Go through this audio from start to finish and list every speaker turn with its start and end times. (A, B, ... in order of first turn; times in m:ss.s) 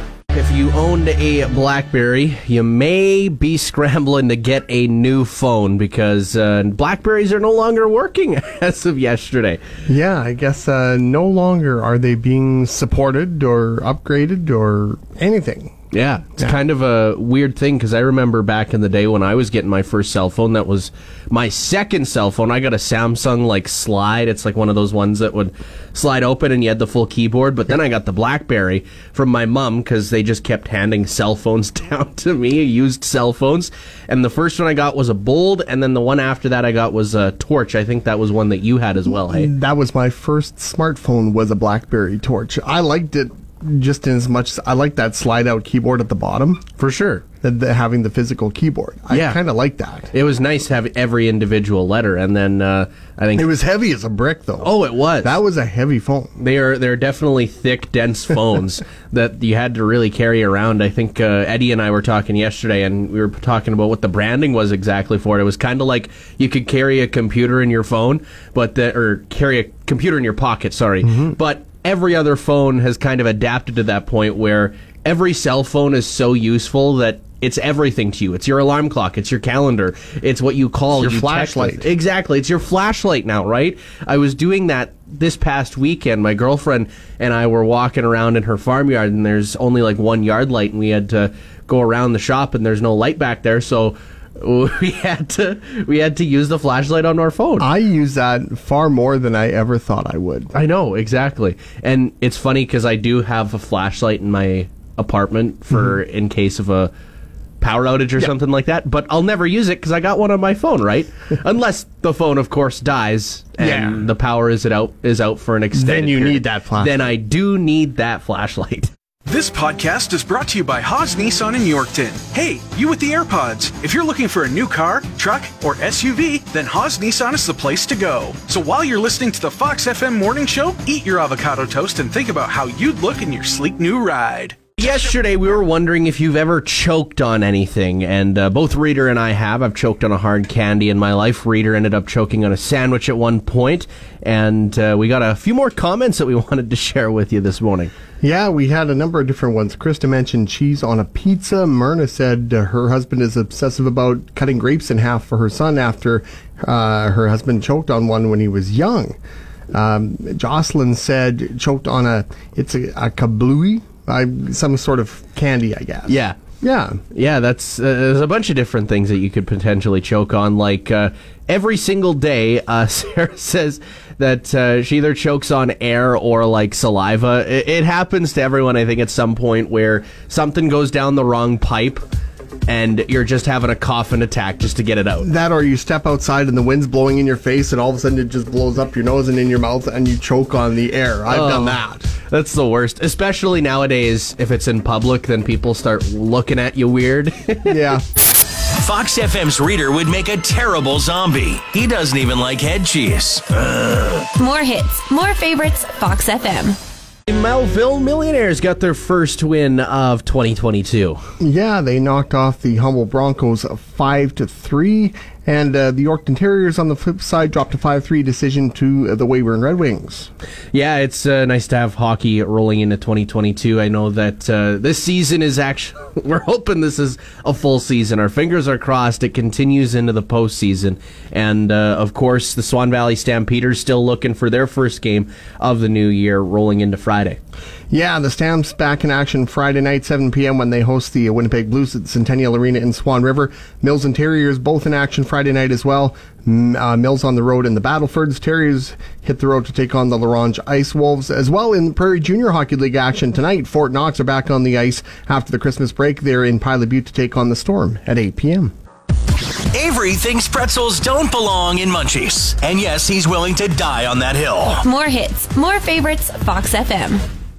0:00.3-0:09.6 A
0:09.9-0:15.7 B
0:15.9-0:39.5 A
0:39.1-0:46.6 B
0:46.8-0:47.2 A
0:47.4-0:50.1 B
0:49.1-0:49.4 A
0:50.1-0:53.5 A
0:53.3-0:56.3 B
0:54.6-0:55.4 A
0:56.4-1:37.7 A
1:11.0-1:11.3 B
1:20.9-1:21.9 B
1:37.6-1:40.5 B
1:40.5-1:46.9 A
1:47.6-1:58.9 A
1:53.6-1:54.0 B
1:55.7-1:57.0 B
1:59.3-2:14.6 C
2:14.8-2:27.9 A
2:28.2-2:39.2 B
2:39.7-2:47.0 B
2:46.1-2:46.4 A
2:47.1-3:02.0 A
3:02.7-3:05.3 A
3:05.2-3:12.1 B
3:11.3-3:17.8 A
3:17.7-3:18.0 B
3:18.8-3:24.2 D
3:24.4-3:26.8 E
3:27.3-3:31.2 A
3:31.4-3:40.3 B
3:40.7-3:57.4 A
3:57.9-4:18.7 B
4:19.7-4:24.8 D
4:24.8-4:27.2 E